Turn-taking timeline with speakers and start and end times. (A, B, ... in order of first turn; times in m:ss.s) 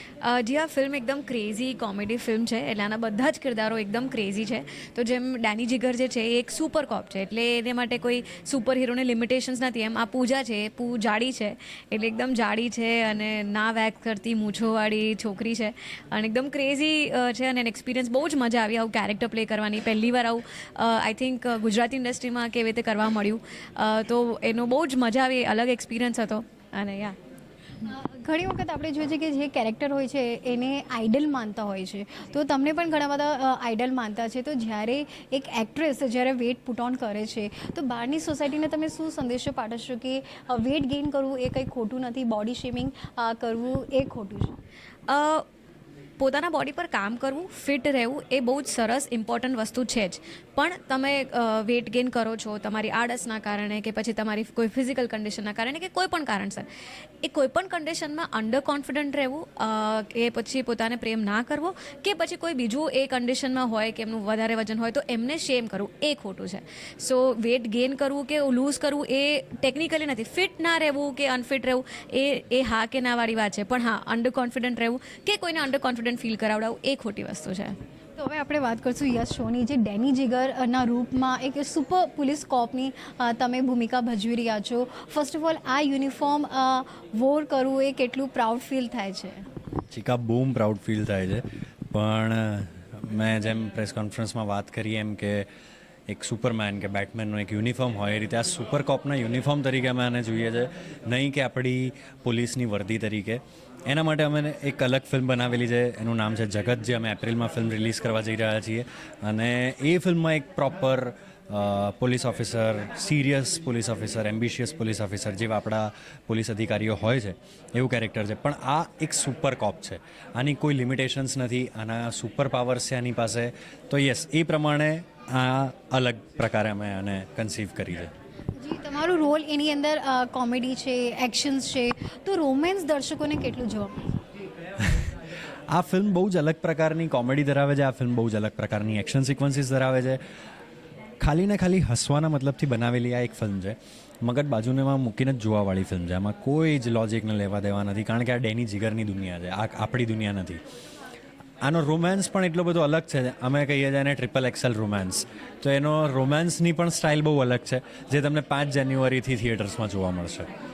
0:00.2-0:27.2 A
0:27.8-0:44.6 B
0:45.1-0:45.4 A
0:46.2-0:56.7 A
0:57.2-1:17.8 A
1:18.2-1:29.5 B
1:29.9-1:35.5 C
1:36.1-2:08.1 C
2:08.6-2:14.2 B
2:14.8-2:15.1 C
2:15.7-2:20.2 C
2:21.2-2:30.6 C
2:31.6-2:40.5 C